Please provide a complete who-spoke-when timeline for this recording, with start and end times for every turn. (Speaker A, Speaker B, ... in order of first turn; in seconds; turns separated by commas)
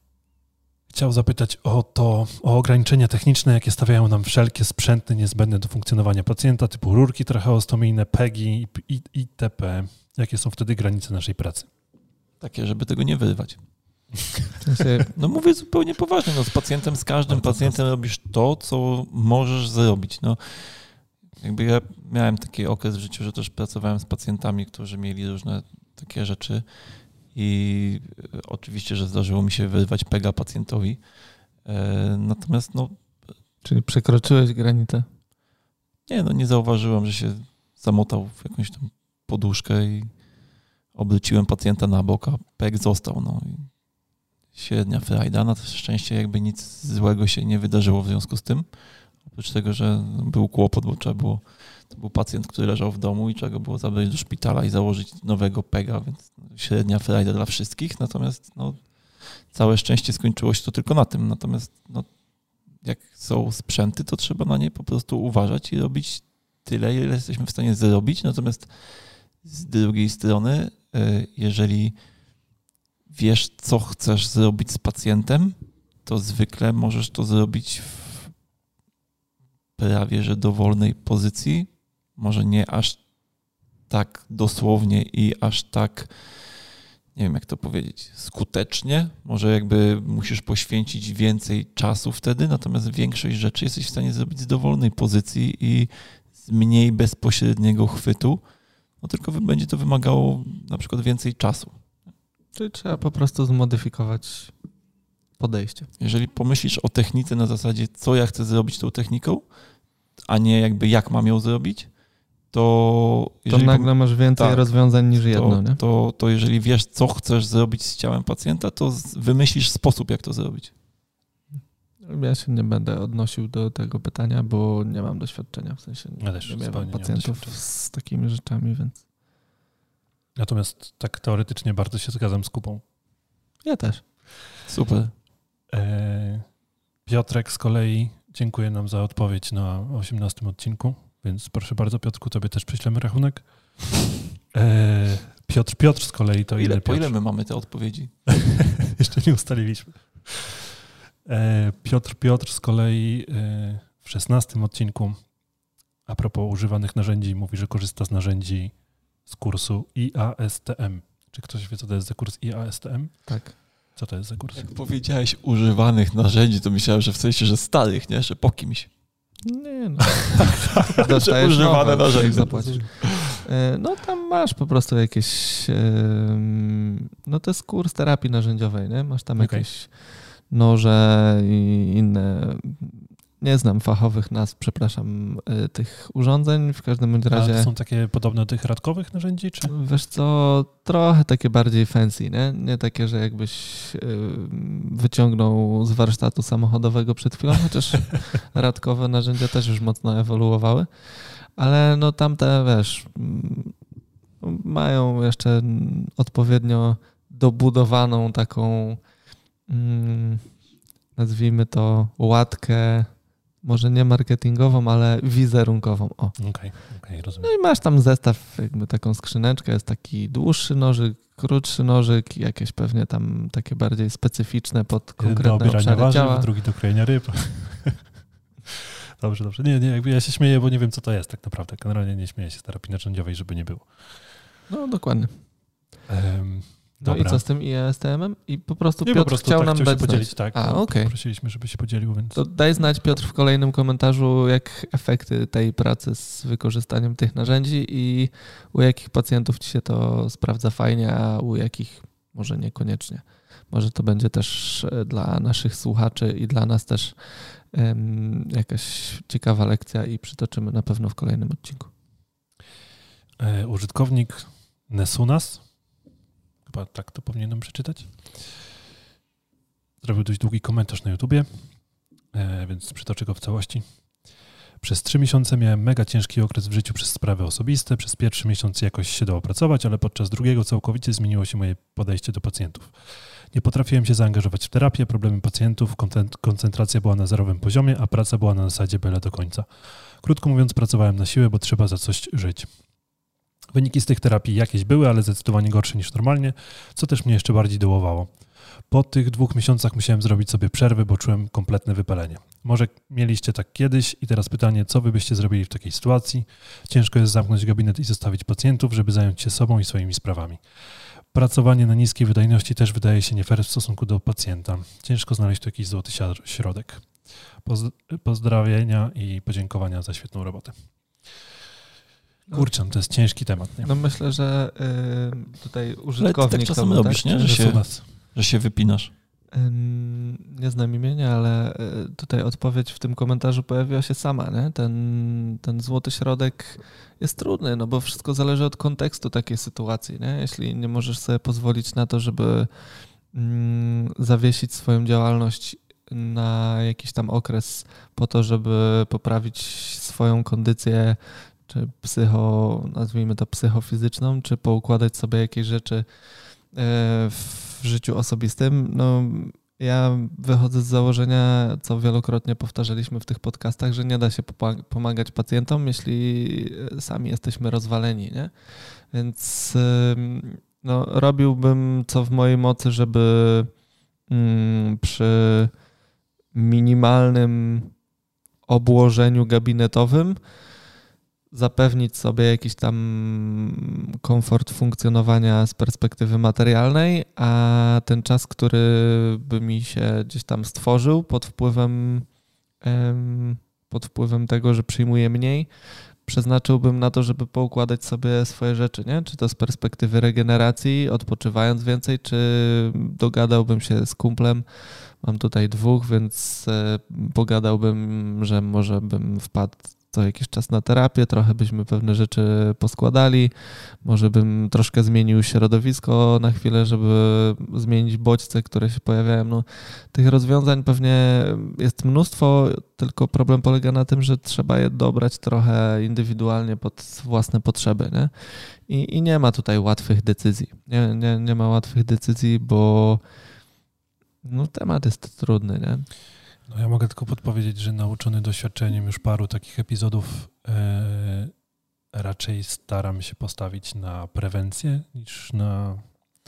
Speaker A: 0.9-11.7, Speaker B: 12.4-13.6, Speaker C: 14.6-15.1, Speaker B: 15.1-26.6, Speaker A: 17.3-17.8, Speaker B: 27.3-31.0, Speaker B: 31.6-33.0, Speaker C: 33.6-35.1, Speaker B: 36.1-40.1, Speaker B: 40.9-43.7, Speaker B: 44.5-48.7, Speaker B: 49.2-62.1, Speaker B: 62.8-68.7, Speaker B: 69.4-72.0, Speaker B: 73.1-78.3, Speaker B: 79.8-83.0, Speaker B: 83.9-86.2, Speaker B: 87.1-98.4, Speaker B: 99.0-101.7, Speaker C: 102.5-104.5, Speaker C: 105.4-105.9, Speaker B: 106.0-109.4, Speaker B: 110.3-111.9, Speaker B: 112.5-120.7, Speaker C: 113.5-115.8, Speaker C: 122.0-129.0, Speaker A: 126.2-127.6, Speaker A: 130.3-132.8, Speaker C: 133.6-134.0, Speaker B: 134.7-135.1, Speaker A: 135.7-136.5, Speaker A: 137.1-143.9, Speaker A: 144.5-147.1, Speaker B: 146.6-148.1, Speaker A: 148.3-155.2, Speaker A: 156.1-163.3, Speaker C: 163.3-163.6, Speaker A: 163.9-164.7, Speaker B: 164.5-168.9, Speaker C: 169.4-187.7, Speaker B: 170.4-173.4, Speaker A: 172.5-172.9, Speaker A: 179.4-179.7, Speaker A: 187.3-189.7, Speaker C: 189.7-203.8, Speaker C: 204.4-209.0, Speaker C: 209.7-210.5, Speaker C: 211.2-216.3, Speaker A: 216.4-217.5, Speaker C: 217.4-226.5, Speaker A: 225.2-228.0, Speaker A: 228.7-234.1, Speaker C: 234.7-235.3, Speaker A: 236.1-237.4, Speaker C: 237.0-241.1, Speaker A: 239.0-242.4, Speaker C: 242.3-257.2, Speaker C: 257.7-261.9, Speaker A: 263.4-265.6, Speaker A: 266.6-268.4, Speaker A: 270.0-271.6, Speaker A: 272.3-273.8, Speaker A: 274.8-282.9, Speaker A: 283.5-292.7, Speaker A: 293.7-310.6, Speaker A: 311.3-320.7, Speaker A: 322.5-323.9, Speaker C: 323.8-327.6, Speaker B: 326.2-329.1, Speaker A: 327.4-328.1, Speaker C: 329.5-342.7, Speaker C: 343.3-356.0, Speaker C: 356.7-368.5, Speaker C: 369.1-373.7, Speaker C: 374.3-375.7, Speaker C: 376.5-377.9, Speaker C: 378.7-380.4, Speaker C: 381.5-392.3, Speaker C: 392.8-395.7, Speaker C: 396.2-404.6, Speaker C: 405.2-433.2, Speaker C: 434.4-436.1, Speaker A: 436.7-441.5, Speaker A: 442.1-446.1